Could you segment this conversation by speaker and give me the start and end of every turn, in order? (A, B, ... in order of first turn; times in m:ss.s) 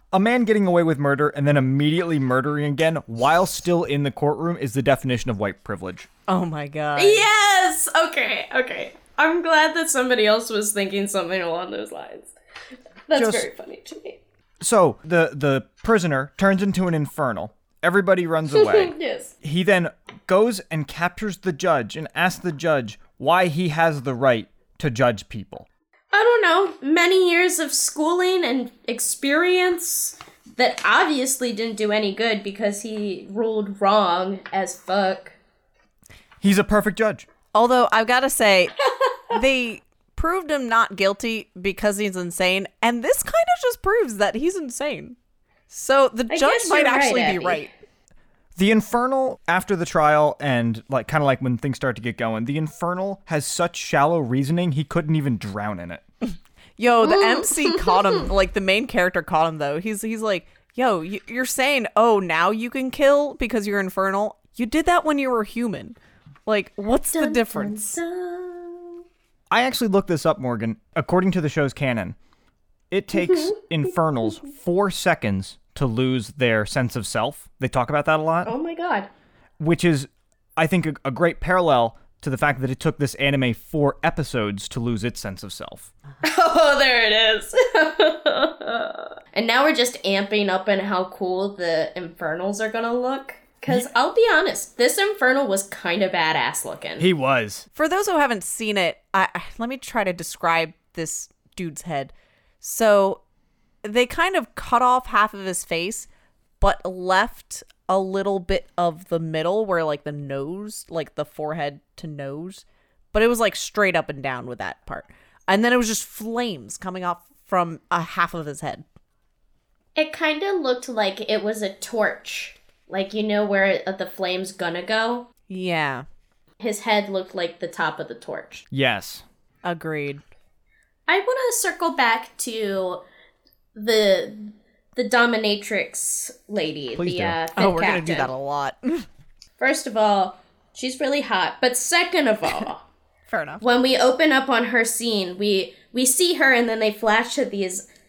0:00.1-0:06.1 A
0:06.3-0:07.3 B
0:07.0-0:12.3 C
0:13.1-0:14.2 C
0:13.2-0:13.5 A
0:14.6-0:25.7 A
0:18.5-0:19.3 C
0:26.1-0:35.4 C
0:36.4-0:37.3 A
0:37.5-0:38.8 B
0:39.3-0:45.2 B
0:45.7-0:47.7 B
0:46.3-0:47.6 C
0:48.6-0:56.0 A
0:56.8-1:08.0 B
0:57.1-0:58.0 C
1:07.1-1:09.0 C
1:09.5-1:12.2 A
1:12.9-1:18.5 A
1:13.2-1:13.5 C
1:18.4-1:19.1 C
1:19.6-1:25.9 A
1:26.2-1:37.1 C
1:37.0-1:37.7 A
1:37.7-1:43.2 B
1:43.8-1:46.1 B
1:46.6-1:58.8 B
2:00.0-2:05.3 C
2:05.5-2:06.0 B
2:06.6-2:08.6 C
2:08.7-2:09.2 A
2:09.6-2:10.2 B
2:11.1-2:13.0 C
2:13.8-2:18.3 C
2:17.0-2:17.4 A
2:17.6-2:19.1 B
2:19.6-2:22.8 C
2:23.3-2:23.6 B
2:23.6-2:27.9 C